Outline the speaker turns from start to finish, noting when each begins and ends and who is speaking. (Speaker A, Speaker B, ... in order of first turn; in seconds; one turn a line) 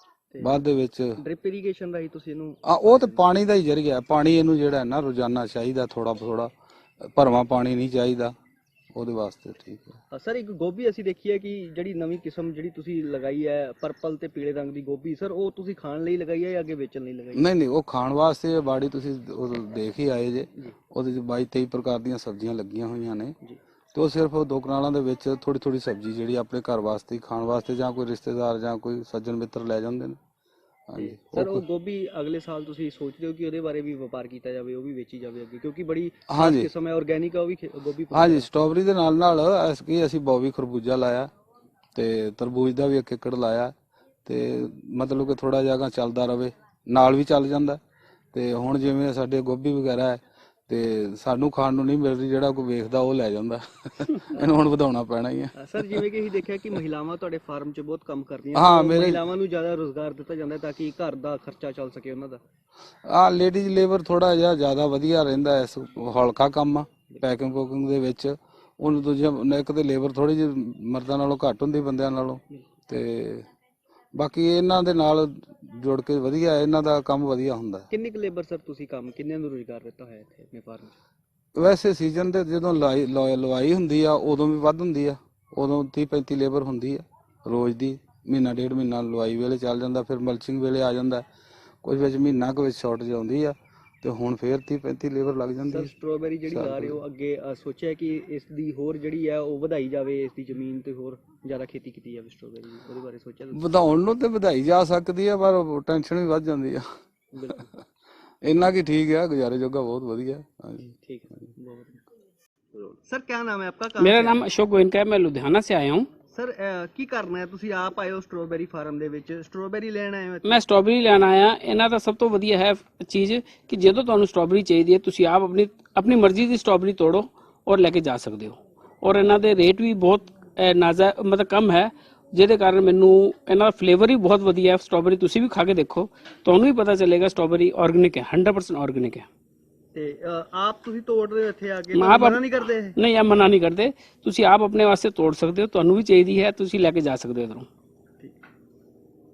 Speaker A: 0.3-0.6
Speaker B: 0.4-1.2
Speaker A: 1.2-3.2
Speaker B: 2.6-8.3
Speaker B: 8.9-10.0
Speaker A: 10.1-17.5
Speaker B: 17.3-23.4
Speaker B: 23.9-30.2
Speaker B: 30.9-31.6
Speaker A: 31.0-38.5
Speaker B: 36.3-36.7
Speaker B: 38.1-41.3
Speaker B: 41.9-43.7
Speaker B: 44.2-47.8
Speaker B: 48.3-56.0
Speaker A: 55.6-62.4
Speaker B: 58.5-59.2
Speaker B: 63.0-73.5
Speaker B: 74.1-77.9
Speaker A: 77.9-80.9
Speaker B: 81.5-91.2
Speaker B: 91.8-95.9
Speaker A: 95.7-103.7
Speaker B: 96.5-97.0
Speaker B: 103.5-106.8
Speaker A: 107.3-107.6
Speaker B: 108.4-110.9
Speaker A: 111.0-112.0
Speaker A: 112.7-114.5
Speaker C: 114.0-116.1
Speaker A: 116.3-120.7
Speaker C: 120.4-139.3
Speaker A: 139.9-143.0
Speaker C: 141.9-142.4
Speaker C: 142.9-147.7